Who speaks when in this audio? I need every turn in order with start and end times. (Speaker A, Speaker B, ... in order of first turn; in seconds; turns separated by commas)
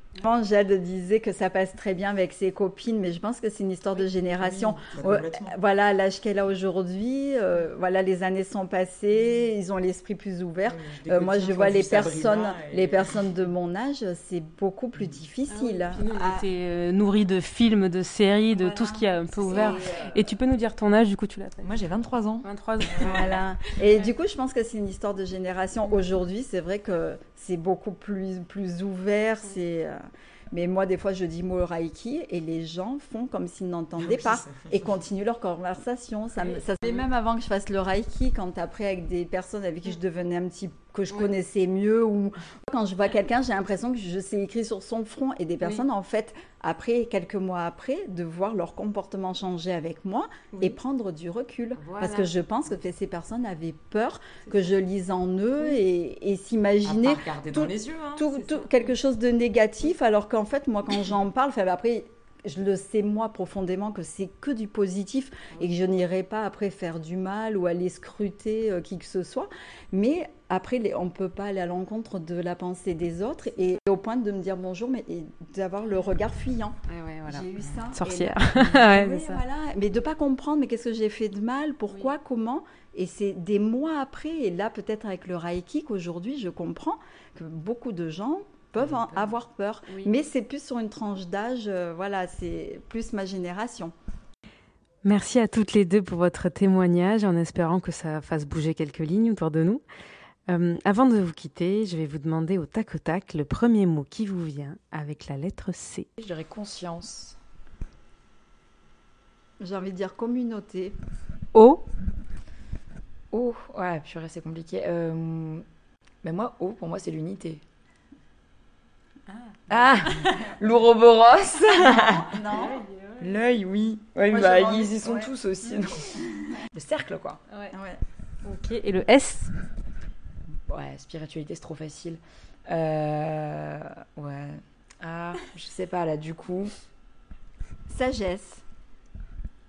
Speaker A: 0.2-16.4, Speaker B: 4.4-5.5, Speaker B: 10.6-13.4, Speaker C: 15.5-21.8, Speaker A: 18.5-20.3, Speaker B: 19.5-19.8, Speaker B: 21.6-23.2, Speaker C: 22.4-23.4, Speaker A: 23.0-93.9, Speaker B: 34.0-34.9, Speaker C: 51.8-52.2, Speaker B: 56.8-58.4, Speaker C: 76.9-79.4, Speaker B: 88.8-89.3, Speaker C: 89.9-90.1, Speaker C: 95.0-99.8, Speaker C: 100.5-106.1, Speaker B: 106.2-107.4, Speaker A: 109.6-111.0, Speaker C: 111.5-111.8, Speaker B: 113.3-115.6, Speaker B: 116.2-117.6, Speaker C: 119.3-119.6, Speaker B: 119.7-126.2, Speaker A: 121.8-122.8, Speaker C: 122.6-123.2, Speaker A: 124.3-125.3, Speaker B: 126.7-127.4, Speaker A: 127.7-128.0, Speaker C: 128.4-129.5, Speaker B: 130.7-136.7, Speaker A: 137.9-138.6